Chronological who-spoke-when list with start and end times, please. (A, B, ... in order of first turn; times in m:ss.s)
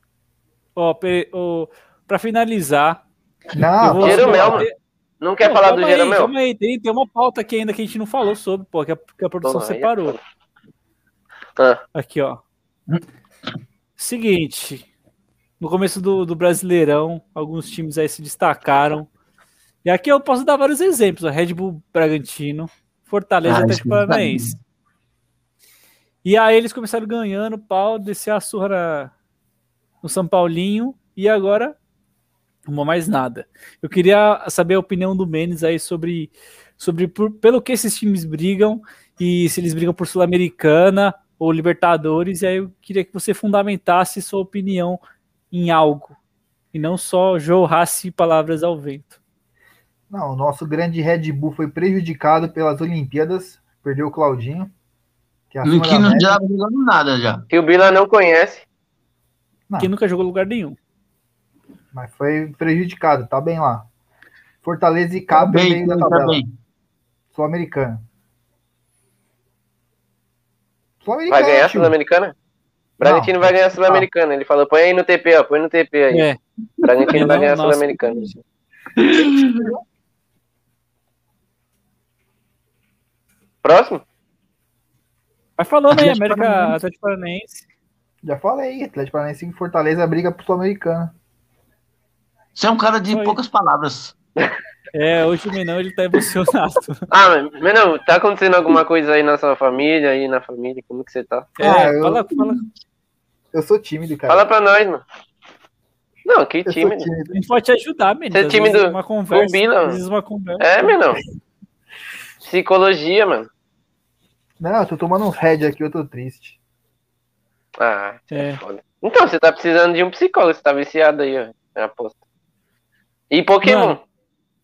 0:00.8-0:03.0 A
0:03.5-0:04.7 B
0:03.8-0:04.7 A
0:04.0-0:04.7 C
0:05.2-0:06.3 C
0:05.4-0:10.2 A
0:09.4-0:10.2 C
0:12.0-0:12.4 A
0:14.0-0:14.9 A
0:15.6-0:19.1 A
0:19.8-0:24.6 A
0:23.4-0:24.6 D
0:26.2-0:29.1 A
0:30.0-0:31.7 A
0:32.7-0:45.0 A
0:45.5-0:46.2 A
0:46.7-0:49.2 A
0:50.1-0:54.7 B
0:55.5-0:56.4 B
0:55.6-0:57.5 D
0:57.5-0:58.6 C
0:59.8-1:00.8 A
1:01.9-1:03.9 B
1:04.6-1:06.4 B
1:05.3-1:06.5 D
1:07.3-1:08.0 B
1:11.0-1:12.0 B
1:11.3-1:12.3 C
1:13.0-1:16.2 C
1:13.0-1:14.1 B
1:16.1-1:16.4 A
1:16.8-1:17.3 D
1:16.8-1:18.3 C
1:17.1-1:18.4 A
1:19.0-1:19.7 D
1:23.6-1:24.0 C
1:25.6-1:27.6 A
1:25.9-1:26.8 D
1:28.2-1:31.1 B
1:32.6-1:34.2 D
1:33.1-1:33.4 A
1:34.9-1:37.1 A
1:37.1-1:41.5 C
1:41.6-1:42.6 A
1:41.6-1:42.2 B
1:43.5-1:44.4 B
1:44.3-1:45.0 C
1:46.3-1:47.1 C
1:46.6-1:47.4 B
1:47.3-1:51.2 A
1:48.3-1:50.0 C
1:50.6-1:51.2 C
1:52.4-1:53.5 C
1:54.6-1:56.6 B
1:57.8-2:02.2 C
1:58.3-1:58.6 A
2:03.3-2:04.0 C
2:03.6-2:04.0 A